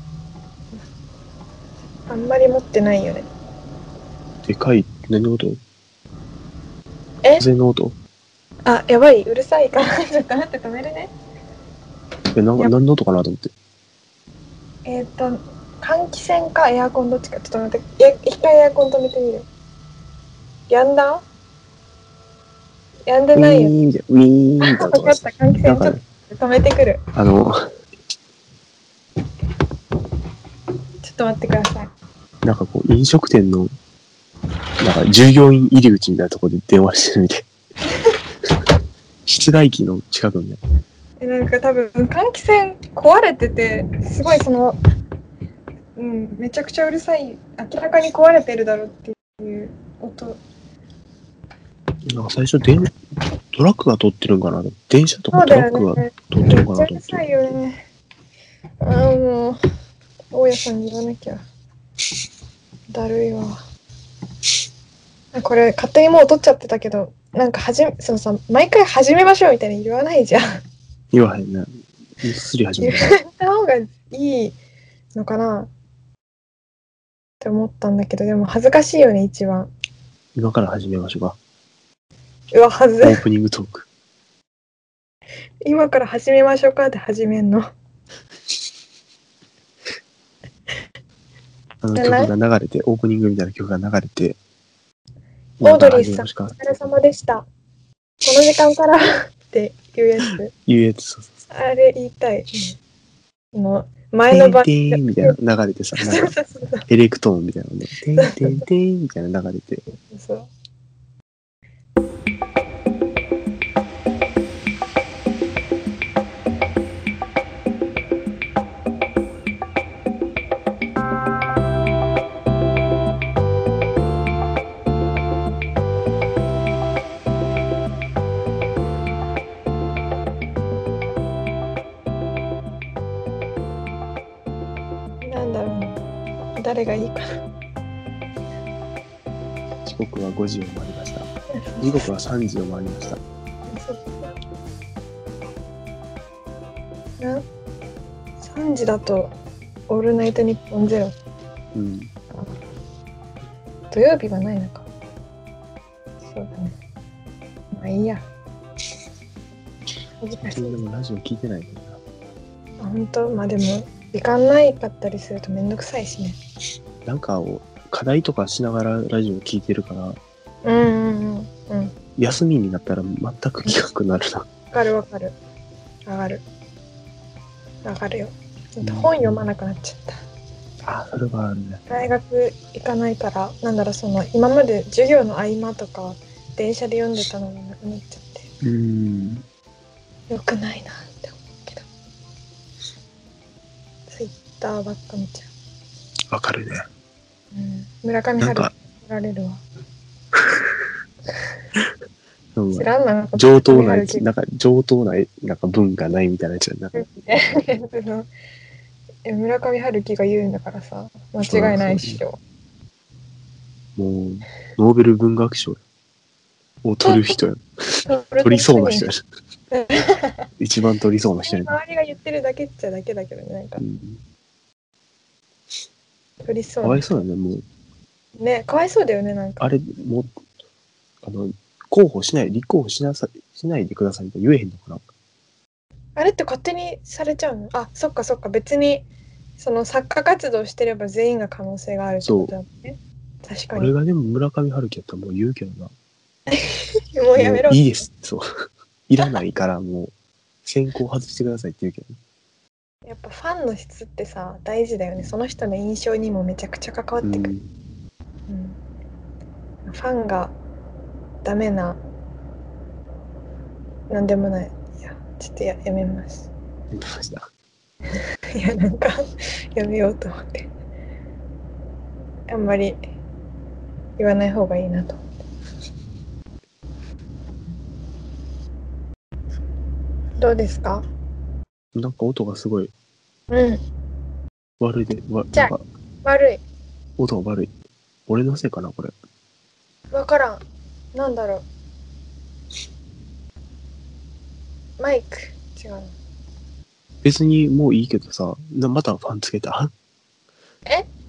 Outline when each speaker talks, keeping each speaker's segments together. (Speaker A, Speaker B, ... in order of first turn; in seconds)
Speaker A: 2.1-3.3, 8.7-11.1, 14.8-19.5, 20.7-21.2, 23.1-23.7, 24.6-27.0, 31.0-31.9, 41.2-44.8, 46.0-50.4, 55.3-57.8, 58.8-59.6, 60.3-61.4, 62.9-63.6, 65.3-70.4, 72.8-74.6, 75.1-75.7, 77.4-79.7, 82.5-83.2, 85.6-87.6, 92.0-92.3, 95.6-97.5, 98.2-100.5, 101.5-102.8, 103.5-105.4, 106.0-106.8, 108.2-108.6, 110.0-110.5, 135.2-136.0, 136.6-137.2, 143.7-144.2, 147.2-147.4, 148.4-149.3, 149.9-151.1, 153.9-154.9, 156.3-156.8, 157.7-158.3, 160.2-160.8, 162.8-166.4, 170.6-171.9, 174.7-175.4, 176.1-176.4, 177.8-180.2, 181.9-188.5, 190.3-191.9, 194.1-195.5, 197.5-199.6, 202.7-204.2, 206.9-208.3, 209.2-212.4, 217.0-217.4, 218.1-219.1, 219.7-220.5, 221.4-223.8, 226.4-227.1, 228.4-229.7, 236.2-239.1, 239.6-243.9, 246.5-247.8, 253.1-257.5, 258.5-258.8, 259.9-260.5, 261.4-262.0, 264.1-266.5, 268.5-269.2, 269.8-270.7, 272.5-273.0, 274.2-275.2, 280.4-281.1, 283.5-283.8, 285.5-286.6, 290.1-290.6, 291.1-291.7, 295.0-296.1
Speaker B: 4.4-5.6, 7.4-7.9, 12.3-13.5, 23.3-26.0, 27.1-27.7, 32.4-33.7, 34.8-37.5, 39.3-40.6, 52.1-52.9, 53.5-57.3, 71.1-71.7, 72.2-73.2, 80.4-81.4, 83.0-83.9, 91.8-94.4, 95.6-96.6, 100.7-101.3, 104.3-106.3, 106.9-109.8, 139.8-141.3, 141.8-143.2, 151.7-152.1, 160.5-162.0, 167.1-170.2, 172.2-174.4, 178.8-179.4, 180.8-181.8, 188.6-189.4, 196.3-196.8, 198.4-198.7, 202.6-206.9, 211.4-212.2, 213.9-215.8, 216.8-219.2, 220.6-221.7, 223.8-224.2, 226.8-227.6, 229.6-230.3, 231.2-235.0, 242.2-242.5, 243.8-245.9, 247.4-248.4, 249.1-250.1, 250.6-252.2, 257.2-257.7, 266.9-267.5, 281.9-282.9, 284.8-285.8, 287.2-287.7, 288.3-289.1, 297.2-299.9